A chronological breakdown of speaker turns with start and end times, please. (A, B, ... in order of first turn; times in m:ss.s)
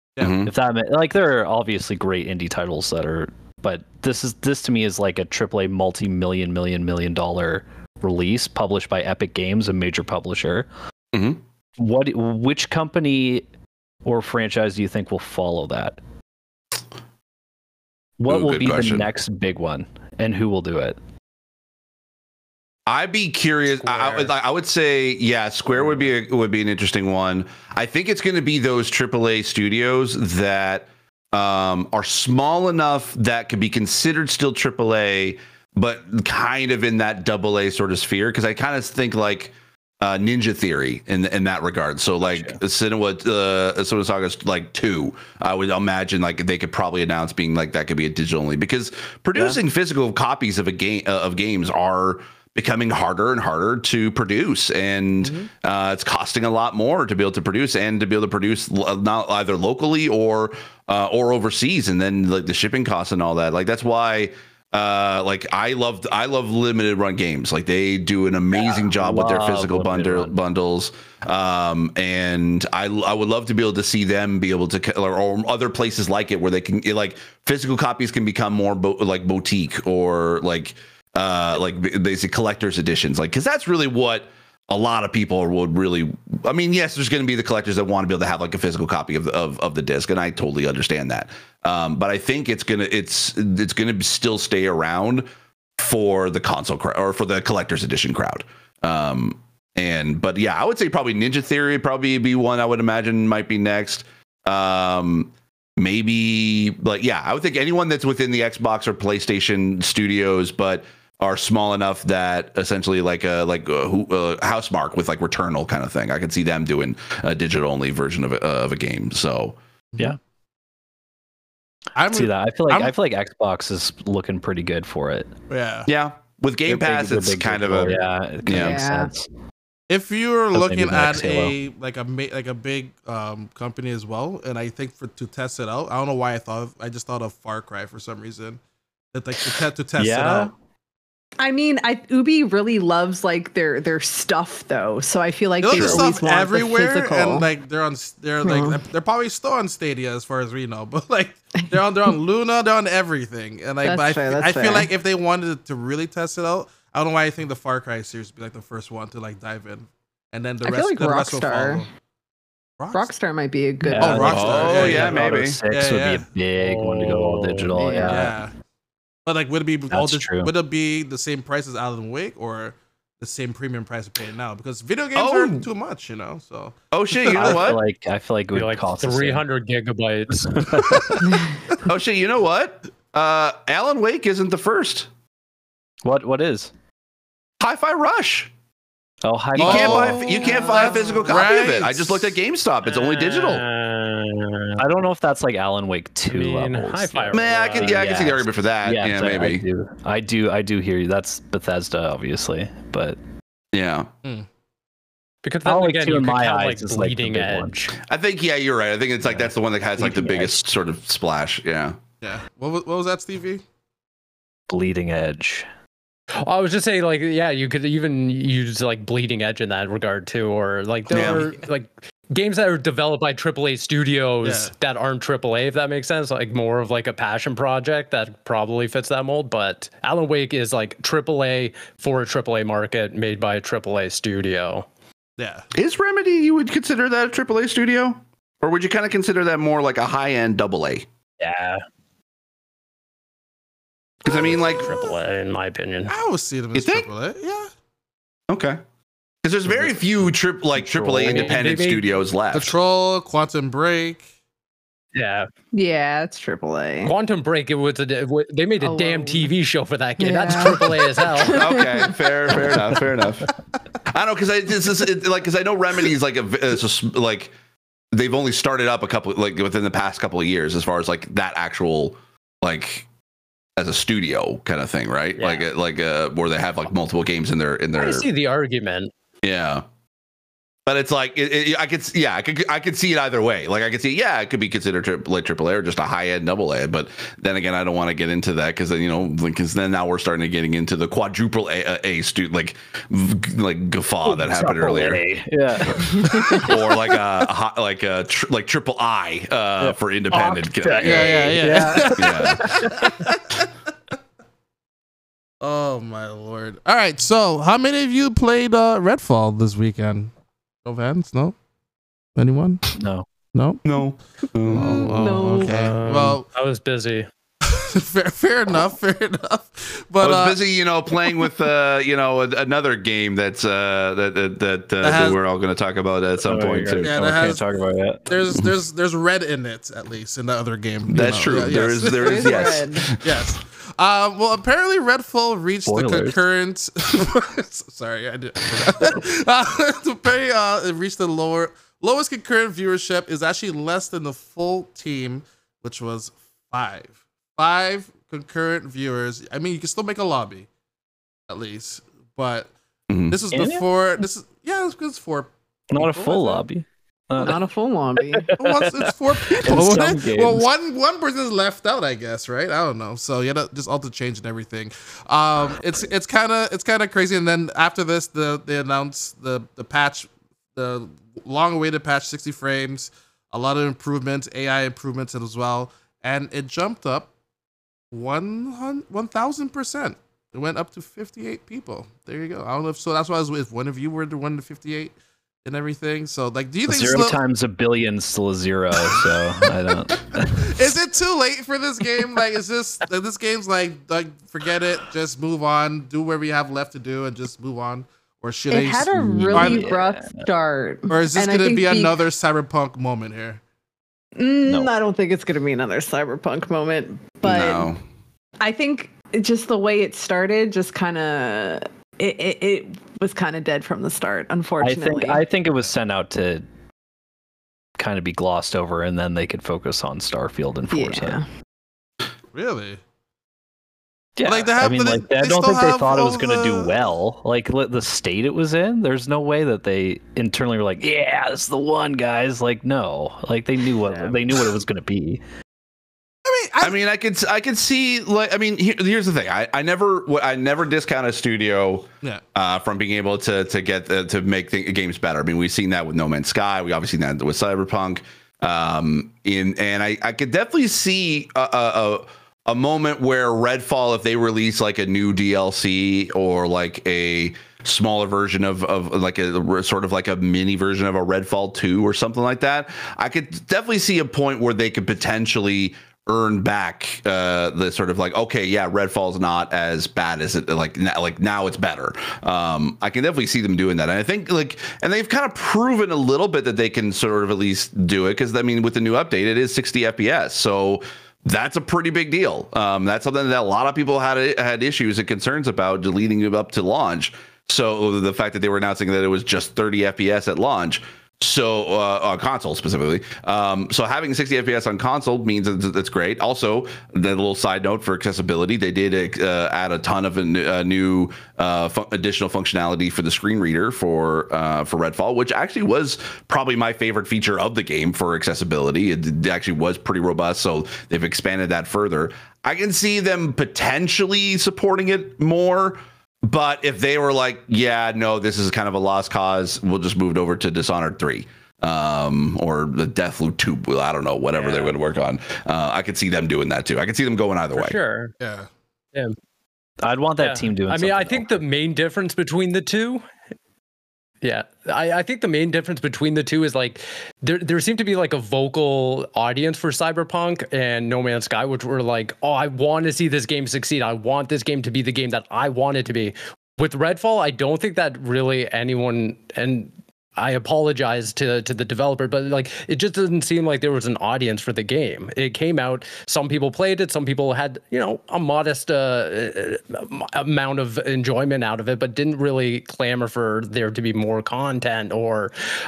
0:00.2-0:00.5 A
0:00.4-0:10.7 B
0:11.1-0:11.4 A
0:11.8-0:13.4 B
0:14.0-0:16.0 B
0:18.2-0:21.0 B
0:18.3-0:19.1 A
0:22.9-1:35.2 A
0:23.8-0:24.3 C
0:55.2-0:55.5 D
1:08.8-1:10.3 B
1:35.8-1:59.6 A
2:02.0-2:02.9 D
2:02.1-2:05.3 B
2:05.5-2:05.9 D
2:05.9-2:08.8 A
2:06.7-2:09.3 B
2:08.5-2:09.1 E
2:09.9-2:18.6 D
2:10.5-2:11.5 B
2:19.1-2:20.5 D
2:20.0-2:20.5 B
2:21.4-2:27.5 E
2:25.6-2:41.9 D
2:28.4-2:28.8 E
2:33.8-2:34.9 E
2:40.6-2:41.8 E
2:42.8-2:43.1 D
2:42.9-2:44.7 E
2:43.8-2:48.4 B
2:44.0-2:46.2 D
2:44.3-2:45.6 A
2:46.6-2:47.7 C
2:47.8-2:48.3 E
2:48.0-2:48.5 D
2:49.2-2:57.5 D
2:49.9-2:50.5 B
2:55.2-2:55.6 A
2:56.9-2:57.8 A
2:57.3-2:59.4 B
2:58.5-3:00.8 C
3:00.4-3:01.3 B
3:01.7-3:05.1 A
3:06.0-3:06.7 B
3:07.6-3:08.5 A
3:09.2-3:10.6 B
3:09.6-3:13.6 A
3:09.6-3:12.4 D
3:10.4-3:11.2 E
3:12.8-3:14.8 C
3:14.8-3:23.2 B
3:16.3-3:18.2 C
3:17.3-3:19.6 A
3:23.7-3:24.1 A
3:25.4-3:27.9 C
3:25.6-3:27.7 B
3:28.0-3:32.0 A
3:30.0-3:30.6 B
3:32.2-3:33.6 D
3:34.7-3:35.7 B
3:36.3-3:54.8 C
3:41.1-3:41.5 A
3:41.2-3:41.4 D
3:44.4-3:44.7 D
3:55.4-3:55.6 D
3:55.7-4:01.0 A
4:01.4-4:01.8 C
4:04.2-4:05.0 A
4:04.2-4:06.1 C
4:06.1-4:07.7 D
4:06.7-4:07.1 A
4:08.5-4:08.8 A
4:09.4-4:12.8 A
4:10.8-4:11.5 B
4:11.2-4:12.1 C
4:12.5-4:14.2 D
4:15.1-4:15.5 C
4:15.7-4:17.1 E
4:17.0-4:21.6 C
4:18.8-4:19.5 E
4:20.2-4:22.2 E
4:21.4-4:23.5 A
4:24.1-4:27.5 A
4:28.1-4:33.1 A
4:33.8-4:38.3 A
4:35.4-4:35.6 C
4:37.9-4:39.1 C
4:39.4-4:39.8 A
4:40.8-4:55.2 A
4:54.2-4:56.6 B
4:55.9-5:02.8 A
4:59.8-5:03.1 B
5:01.0-5:03.7 D
5:05.6-5:10.3 D
5:10.8-5:11.6 D
5:12.4-5:13.0 D
5:13.0-5:13.2 B
5:13.5-5:13.8 D
5:13.8-5:15.2 A
5:14.7-5:16.5 D
5:15.0-5:15.8 E
5:15.6-5:17.3 C
5:17.6-5:20.6 D
5:20.2-5:27.1 A
5:25.0-5:25.4 D
5:26.4-5:28.3 B
5:27.0-5:27.6 D
5:28.3-5:50.7 D
5:31.1-5:33.5 A
5:32.2-5:33.1 E
5:35.9-5:36.4 B
5:51.5-5:52.7 D
5:53.1-5:53.4 A
5:53.3-5:56.6 D
5:53.5-5:53.8 B
5:55.9-5:57.6 B
5:57.4-5:58.5 E
5:58.2-6:00.7 B
5:58.5-6:17.3 D
6:18.1-6:27.4 D
6:26.9-6:30.7 B
6:30.4-6:39.9 D
6:38.7-6:42.2 E
6:39.1-6:40.4 B
6:41.1-6:43.6 D
6:44.4-6:47.9 E
6:44.6-6:44.9 B
6:47.4-6:48.0 A
6:48.6-6:55.4 E
6:54.8-6:56.6 B
6:58.0-7:01.4 B
7:00.9-7:01.4 E
7:02.5-7:03.0 D
7:04.4-7:15.4 B
7:04.4-7:07.0 D
7:16.4-7:17.0 D
7:16.8-8:48.0 A
8:44.6-8:44.9 C
8:47.7-8:48.3 C
8:48.4-8:48.7 D
8:50.0-8:51.6 B
8:50.4-8:53.2 C
8:54.4-9:25.5 C